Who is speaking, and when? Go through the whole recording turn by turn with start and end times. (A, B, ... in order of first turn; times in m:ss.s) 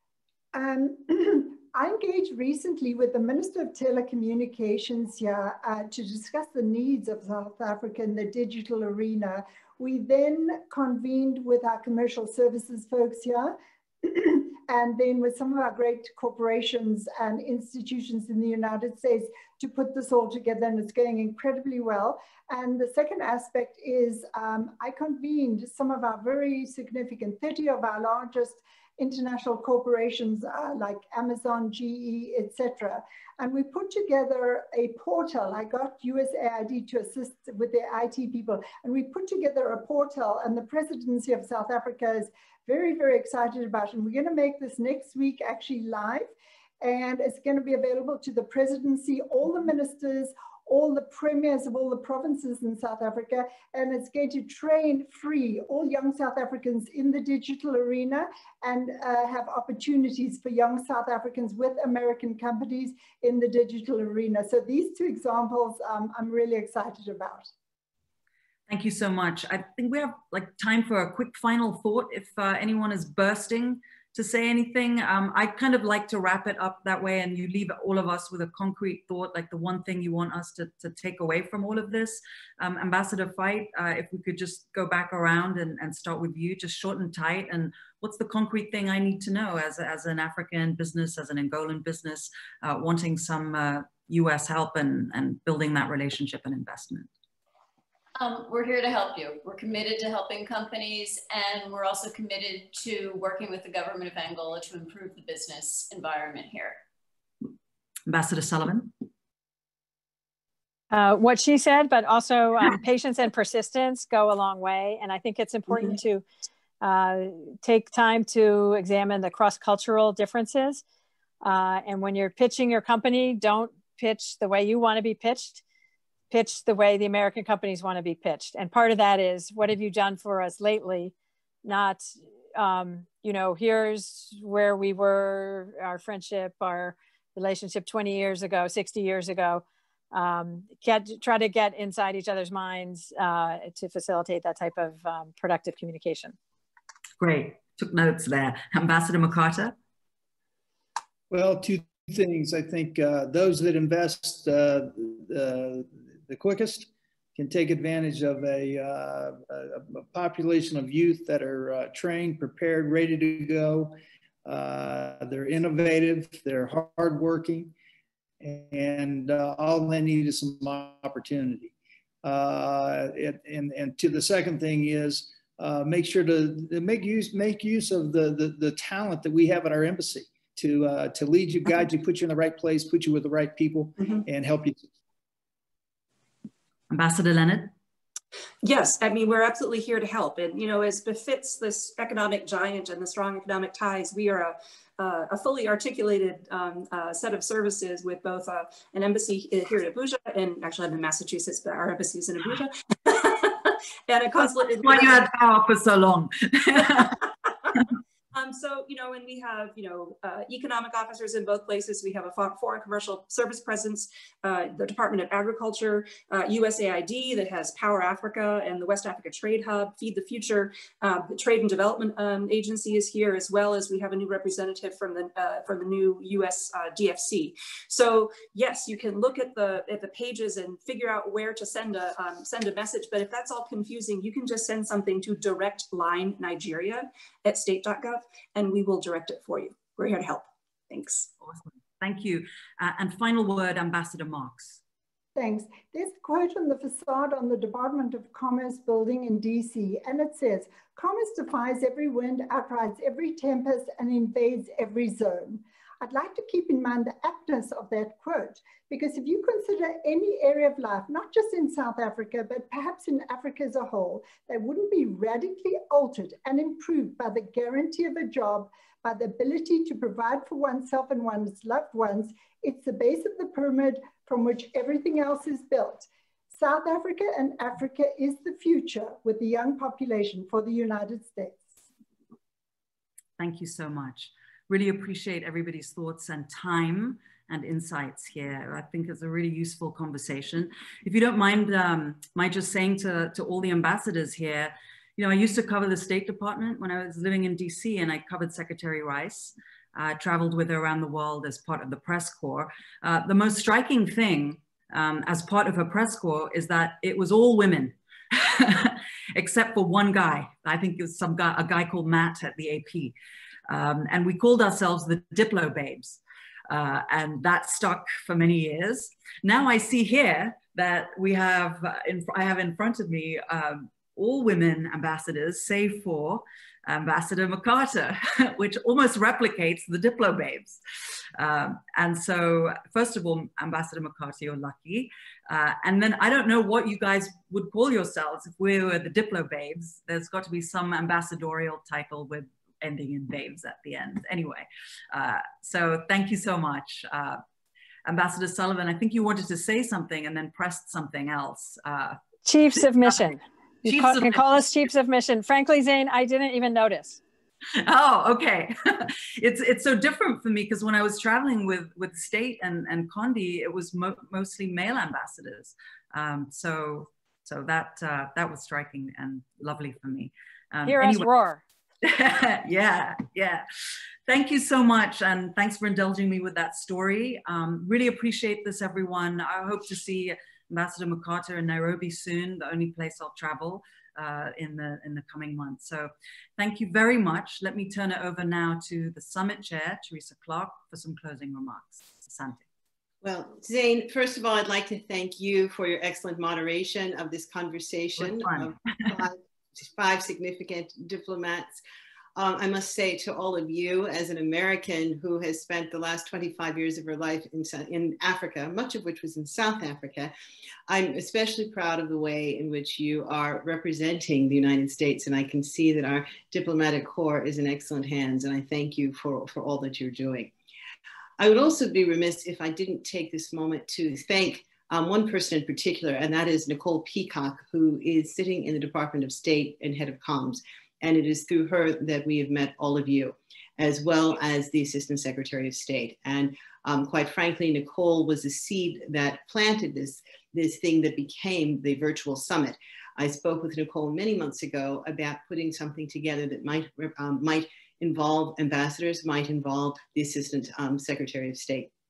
0:00.5-1:07.5 A
1:08.7-1:37.1 B
1:38.2-1:46.8 C
1:48.1-1:48.9 B
1:50.9-1:56.2 D
1:56.8-2:00.8 D
2:01.4-2:05.6 D
2:06.3-2:11.1 D
2:11.6-2:26.4 D
2:27.2-2:29.8 B
2:31.3-2:47.7 E
2:48.4-2:51.7 E
2:52.2-3:04.9 E
3:06.9-3:07.7 B
3:08.6-3:25.2 F
3:24.6-3:27.2 B
3:28.3-4:01.3 F
4:01.4-4:04.8 B
4:05.4-4:41.8 A
4:43.4-5:13.1 B
5:13.7-5:30.8 B
5:31.4-5:47.4 B
5:48.1-5:52.2 B
5:52.4-5:57.2 D
5:53.0-5:53.3 B
5:53.8-5:54.6 B
5:57.8-6:11.3 B
6:10.9-6:11.6 D
6:12.0-6:13.6 B
6:14.3-6:32.6 B
6:33.2-6:41.8 G
6:38.2-6:39.2 B
6:42.4-6:50.3 G
6:50.9-7:00.5 G
7:01.4-7:31.9 G